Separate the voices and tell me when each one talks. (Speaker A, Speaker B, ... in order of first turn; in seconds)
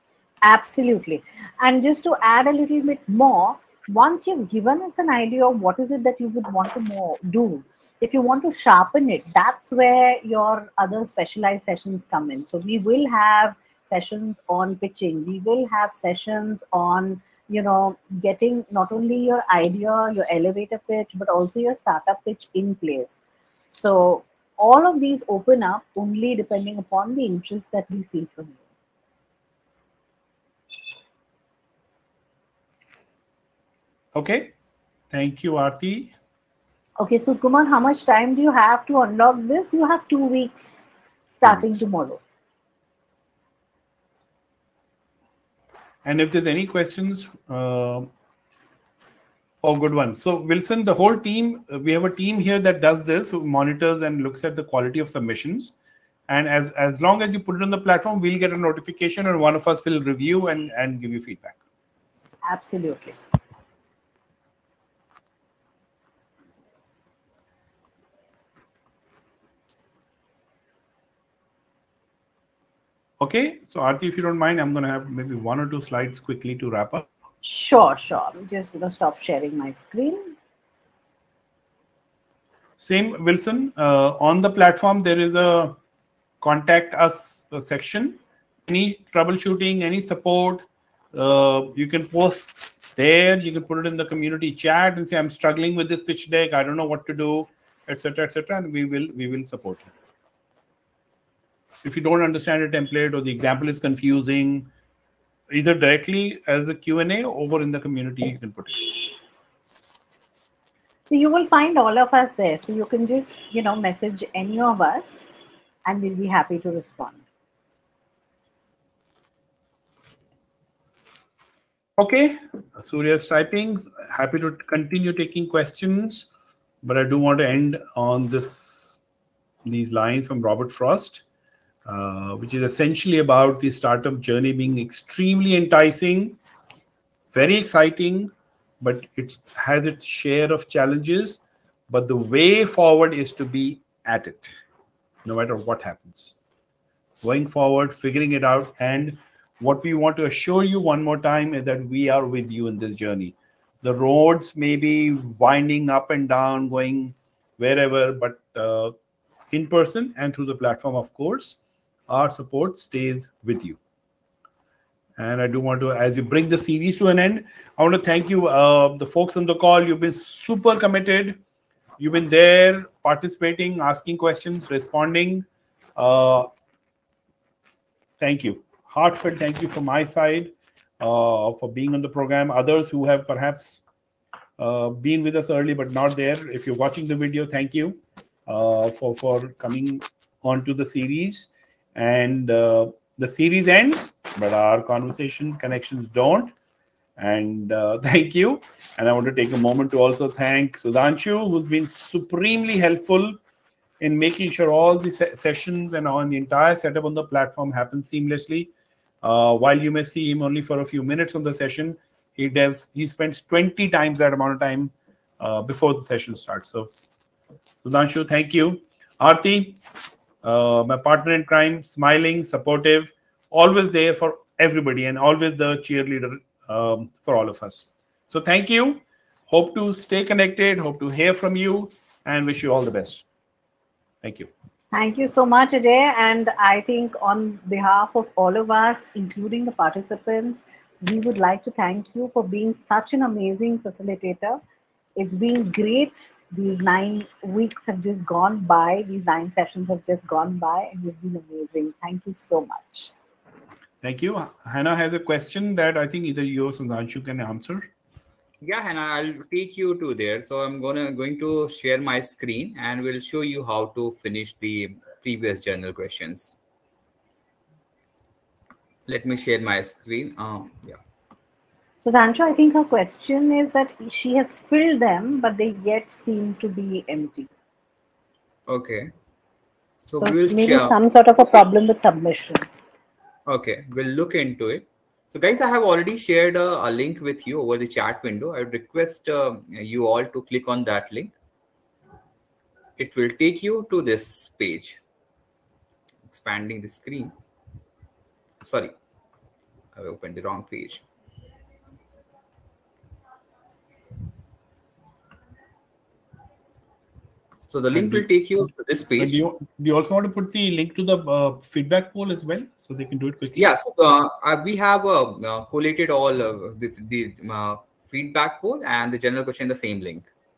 Speaker A: 0.4-23.2, 23.7-28.6, 37.0-42.2, 62.5-63.2, 77.4-80.3, 111.1-115.3, 115.8-117.2, 234.9-244.6, 245.2-253.1, 272.0-277.5, 280.2-282.7
Speaker B: 34.1-34.5, 35.1-36.1, 46.0-48.1, 49.6-55.7, 56.3-61.6, 73.2-77.1, 82.8-85.8, 86.4-99.9, 101.8-104.7, 105.5-109.1, 122.0-126.3, 126.8-129.0, 129.7-131.2, 131.9-136.4, 137.3-144.5, 145.2-146.3, 147.2-158.9, 159.5-161.6, 162.1-163.8, 165.2-171.4, 172.0-176.5, 178.2-183.8, 184.6-196.5, 197.2-203.4, 204.0-208.7, 209.2-216.9, 217.8-219.8, 220.4-233.2, 234.2-234.5, 254.0-257.9, 307.9-308.2, 309.2-313.6
Speaker C: 258.6-266.6, 269.1-271.0, 278.7-279.1, 280.1-280.9, 283.5-291.3, 293.0-295.0, 296.3-297.3, 298.6-298.9, 299.9-301.0, 307.7-309.4, 313.6-320.3